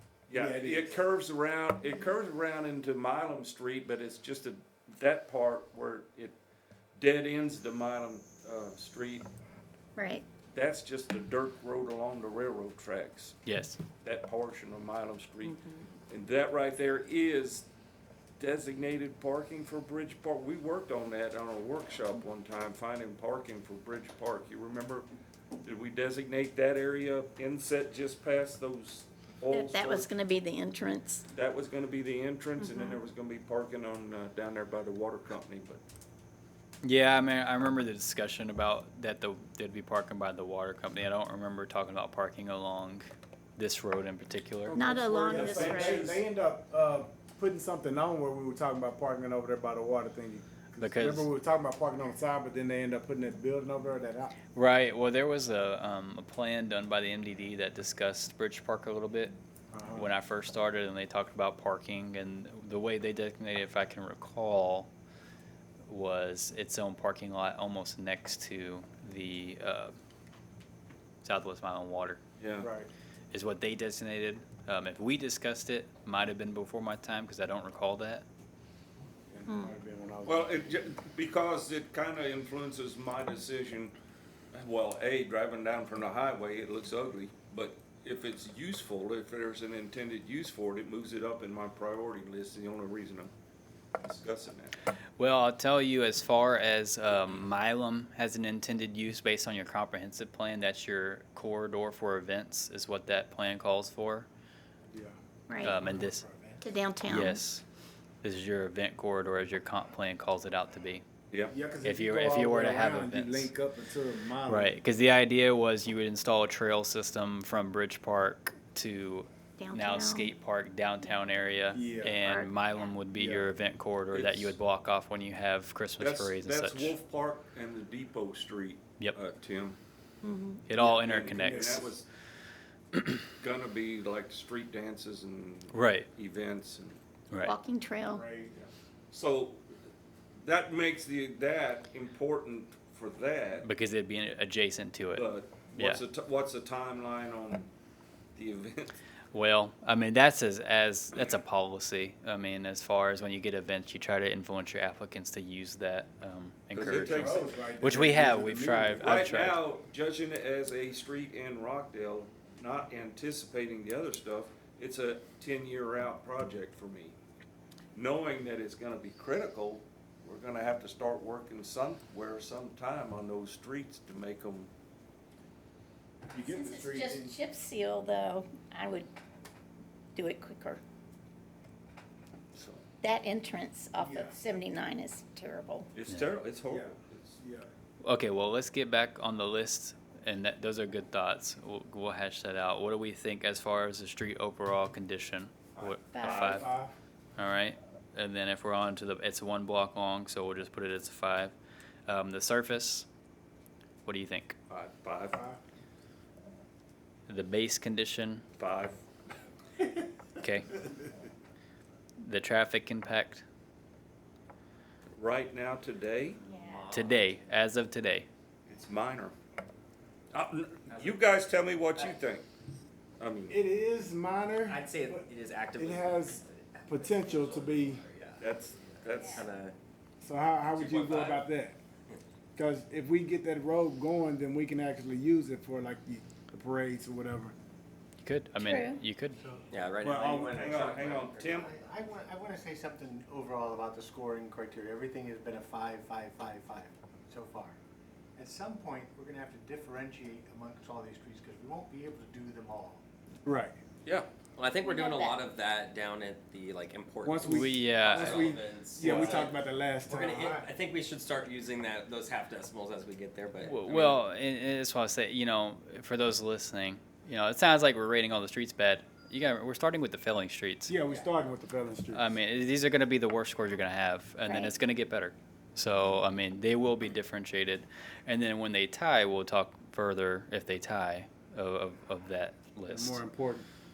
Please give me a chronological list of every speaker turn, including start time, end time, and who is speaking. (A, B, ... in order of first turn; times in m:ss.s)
0:00.3-0:06.4 A
0:00.3-0:00.9 B
0:07.0-0:09.3 A
0:10.0-0:10.2 C
0:10.5-0:13.4 A
0:13.4-0:13.8 D
0:14.0-0:17.6 A
0:18.4-0:25.1 A
0:25.6-0:30.1 A
0:29.5-0:31.2 C
0:31.3-0:35.8 A
0:32.6-0:33.0 C
0:36.8-0:44.8 D
0:44.7-0:46.1 C
0:44.8-0:54.3 B
0:45.2-0:46.2 A
0:50.8-0:51.3 D
0:54.5-0:59.3 D
0:59.7-1:00.1 B
0:59.9-1:04.9 D
1:05.9-1:09.9 D
1:11.2-1:12.2 D
1:12.4-1:12.7 A
1:12.6-1:12.9 B
1:13.3-1:18.2 D
1:19.3-1:20.9 B
1:19.5-1:19.7 C
1:20.2-1:23.9 A
1:24.5-1:33.3 A
1:34.0-1:34.8 A
1:35.2-1:44.3 D
1:44.9-1:45.2 B
1:45.5-1:45.7 C
1:45.6-1:46.2 D
1:45.6-1:46.7 E
1:46.6-1:47.4 C
1:47.1-1:47.6 D
1:48.2-1:51.0 D
1:51.5-1:54.8 B
1:51.8-1:53.5 D
1:54.5-2:06.9 D
1:59.6-2:00.3 C
2:01.7-2:02.2 B
2:02.2-2:02.8 C
2:03.1-2:03.5 B
2:04.1-2:04.6 A
2:06.0-2:09.8 A
2:10.2-2:10.6 C
2:10.7-2:11.9 D
2:10.7-2:12.1 A
2:11.3-2:11.9 B
2:13.4-2:17.0 A
2:15.7-2:16.1 D
2:17.4-2:18.2 C
2:18.0-2:18.5 B
2:18.5-2:19.6 A
2:20.4-2:23.7 A
2:23.6-2:26.0 D
2:25.1-2:27.7 A
2:28.3-2:29.0 A
2:29.3-2:39.6 D
2:36.7-2:37.5 A
2:37.0-2:39.2 B
2:39.0-2:47.2 A
2:47.9-2:54.7 A
2:56.3-2:57.3 B
2:56.4-2:59.1 C
3:00.1-3:00.8 C
3:02.5-3:02.8 A
3:03.0-3:05.9 C
3:04.0-3:04.4 B
3:05.9-3:07.4 A
3:06.7-3:07.7 B
3:08.0-3:16.6 D
3:15.7-3:16.9 B
3:16.1-3:16.5 C
3:16.2-3:16.6 A
3:17.4-3:21.5 D
3:22.0-3:23.1 D
3:24.0-3:24.6 D
3:24.7-3:25.4 A
3:25.3-3:25.6 B
3:27.3-3:28.4 D
3:28.6-3:29.0 A
3:30.4-3:30.7 D
3:32.2-3:33.4 D
3:35.1-3:36.4 A
3:36.4-3:37.3 F
3:36.5-3:36.8 C
3:36.9-3:38.3 D
3:38.7-3:39.3 A
3:40.3-3:42.4 A
3:40.9-3:41.2 F
3:43.2-3:43.6 A
3:43.5-3:48.0 B
3:44.6-3:49.7 F
3:48.4-3:49.5 A
3:50.2-3:51.8 B
3:50.8-3:51.4 F
3:52.5-3:57.5 B
3:58.2-3:59.4 D
3:58.6-3:59.0 C
3:59.4-3:59.6 E
3:59.7-4:01.4 F
4:00.0-4:00.9 B
4:00.5-4:01.7 A
4:01.4-4:07.8 E
4:08.4-4:13.0 E
4:13.4-4:13.8 B
4:14.0-4:24.2 F
4:14.8-4:15.4 C
4:17.2-4:20.6 B
4:17.5-4:18.5 D
4:23.6-4:30.9 D
4:30.9-4:32.4 B
4:32.1-4:43.2 D
4:34.4-4:34.7 C
4:42.9-4:43.7 B